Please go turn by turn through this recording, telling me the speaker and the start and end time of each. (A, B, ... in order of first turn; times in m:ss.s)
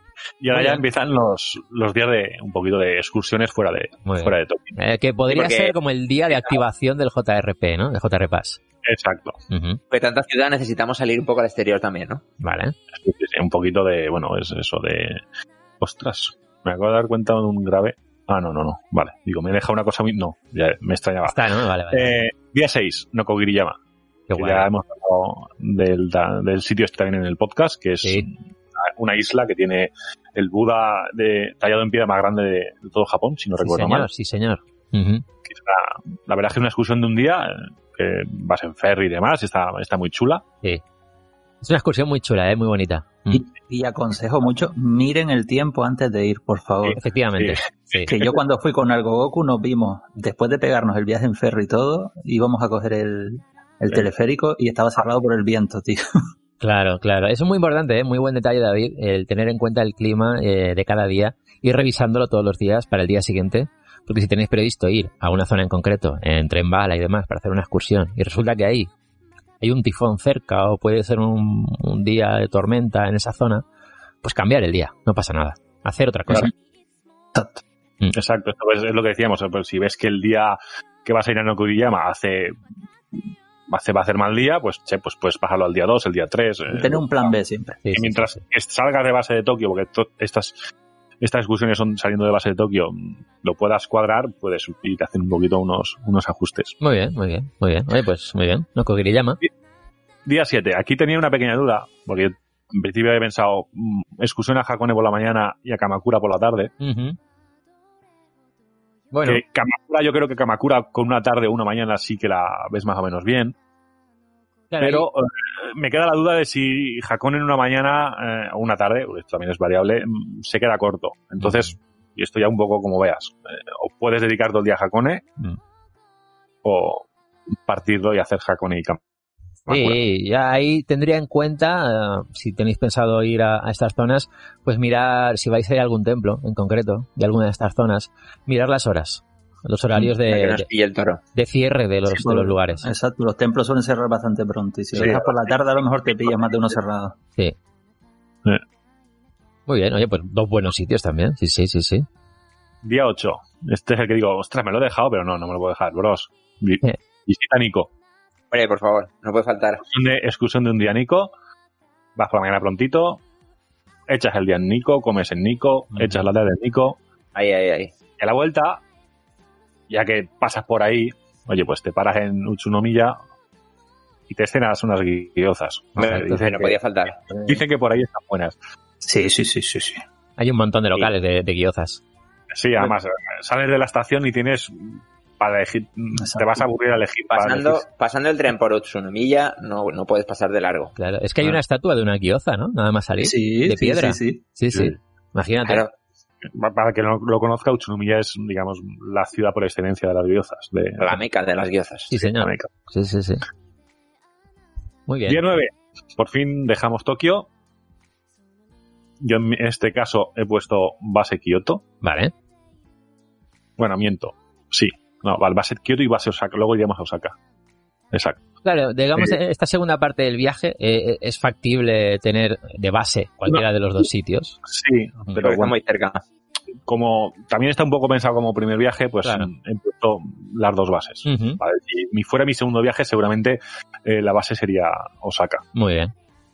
0:00.4-0:04.8 A
0:00.5-0:00.8 B
0:04.0-0:08.6 B
0:05.3-0:05.7 C
0:06.3-0:06.6 C
0:08.8-0:09.4 A
0:09.5-0:09.8 B
0:09.9-0:12.2 C
0:12.4-0:12.7 B
0:12.9-0:15.2 A
0:15.8-0:21.4 A
0:21.2-0:22.2 B
0:21.9-0:23.8 A
0:24.3-0:24.7 B
0:24.4-0:34.1 A
0:33.6-0:35.2 B
0:35.4-0:40.4 A
0:41.6-0:43.4 B
0:43.3-0:47.0 D
0:46.8-0:48.4 A
0:47.0-0:48.1 B
0:48.1-0:56.0 D
0:56.6-1:08.9 B
1:09.6-1:13.6 B
1:14.2-1:16.5 B
1:17.3-1:17.6 D
1:18.1-1:22.6 A
1:23.2-1:27.3 A
1:26.7-1:27.8 D
1:27.8-1:28.4 B
1:27.9-1:30.6 A
1:31.2-1:36.8 A
1:36.8-1:39.4 B
1:40.2-1:46.7 A
1:46.8-1:47.2 B
1:49.1-1:49.4 B
1:49.2-1:53.6 A
1:54.7-1:55.1 B
1:54.8-2:05.3 A
2:01.4-2:01.7 B
2:06.6-2:07.1 A
2:07.6-2:09.0 A
2:09.7-2:10.0 A
2:09.7-2:20.7 B
2:20.3-2:21.2 C
2:21.3-2:22.9 B
2:22.1-2:27.2 D
2:24.9-2:25.3 A
2:29.7-2:32.0 B
2:32.8-2:37.9 A
2:38.5-2:39.8 C
2:39.8-2:41.3 A
2:42.2-2:43.2 A
2:44.1-2:47.0 A
2:45.9-2:46.2 B
2:47.3-2:47.9 C
2:48.2-2:48.8 A
2:49.9-2:53.2 A
2:54.3-2:56.8 A
2:56.0-2:56.4 B
2:56.0-2:57.2 C
2:57.3-2:57.6 D
2:57.4-2:58.6 A
2:59.0-3:00.0 D
3:00.4-3:02.0 B
3:02.5-3:07.8 A
3:06.2-3:06.6 D
3:07.3-3:10.9 C
3:11.0-3:15.8 B
3:13.2-3:14.4 D
3:14.7-3:15.0 A
3:15.6-3:15.9 C
3:16.5-3:21.2 A
3:21.0-3:22.1 C
3:22.1-3:23.4 B
3:22.2-3:22.7 A
3:25.1-3:25.4 B
3:25.3-3:27.5 A
3:29.2-3:31.8 A
3:32.0-3:32.3 B
3:33.8-3:37.4 A
3:38.1-3:38.4 A
3:38.6-3:44.6 B
3:44.6-3:45.7 A
3:45.4-3:46.2 C
3:46.9-3:55.6 A
3:51.2-3:51.6 B
3:55.7-3:56.1 B